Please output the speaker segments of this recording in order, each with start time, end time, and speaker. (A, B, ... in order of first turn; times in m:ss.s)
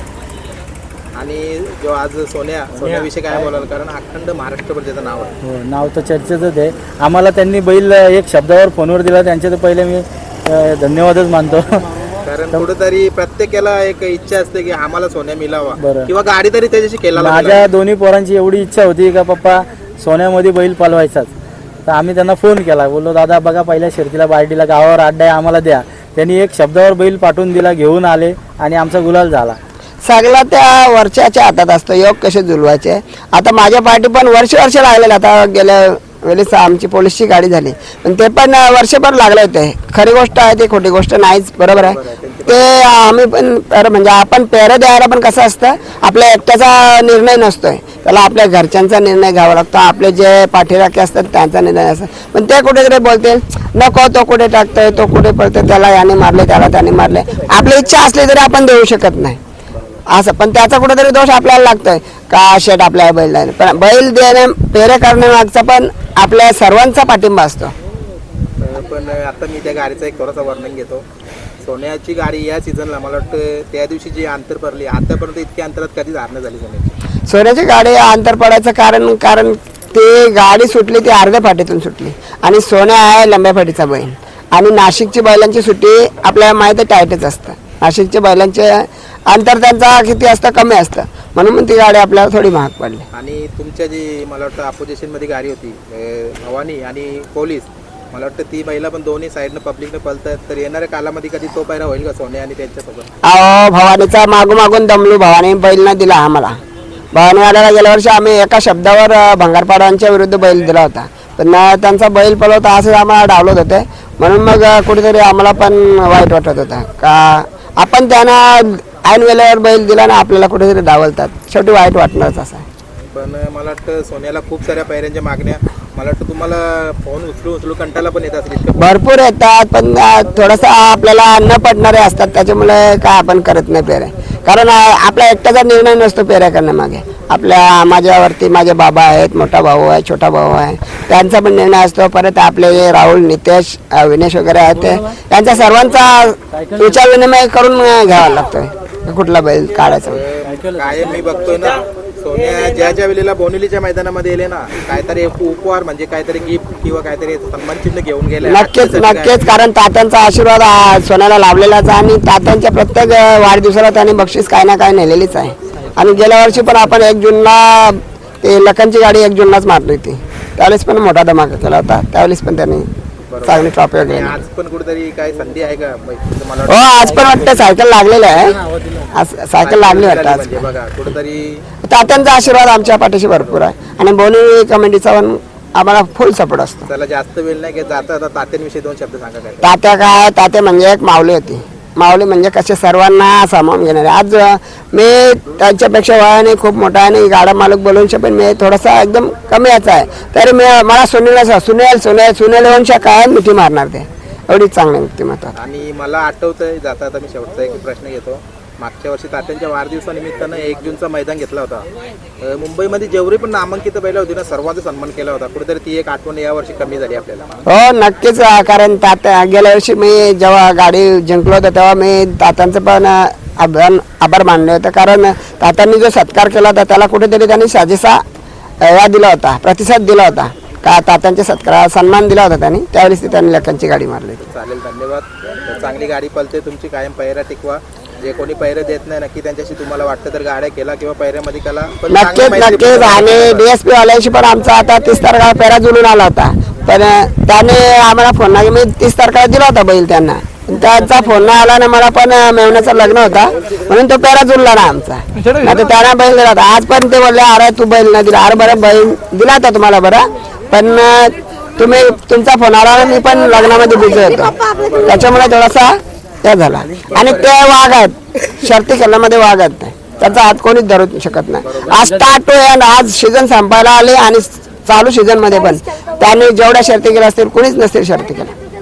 0:01.2-0:05.3 A
0:05.4-0:11.9 B
0:12.2-0:17.7 A
0:15.8-0:16.1 B
0:17.1-0:21.3 B
0:21.8-0:29.6 B
0:30.0-0:59.4 C
0:41.7-0:42.7 A
1:00.1-1:07.7 C
1:08.6-1:11.0 A
1:11.6-1:16.9 A
1:17.3-1:33.0 C
1:33.1-1:43.1 A
1:43.2-1:46.6 C
1:47.1-2:02.6 C
2:03.1-2:08.9 A
2:08.8-2:30.2 C
2:26.5-2:27.0 B
2:29.9-2:39.6 A
2:30.4-2:31.3 B
2:38.4-2:52.9 C
2:53.3-2:57.2 A
2:53.4-2:54.4 C
2:56.7-2:58.6 C
2:57.0-2:57.7 B
2:58.3-2:59.1 B
2:59.1-3:00.6 C
2:59.6-3:01.6 A
3:01.9-3:06.9 C
3:06.9-3:09.7 A
3:09.6-3:25.5 C
3:25.6-3:31.8 A
3:32.4-3:37.6 A
3:37.7-3:48.2 C
3:48.8-3:54.4 C
3:54.4-4:03.7 A
4:02.1-4:38.5 C
4:10.8-4:11.3 B
4:24.5-4:25.3 A
4:26.8-4:27.4 B
4:27.1-4:27.5 A
4:30.1-4:30.4 A
4:31.6-4:32.0 A
4:31.9-4:32.4 B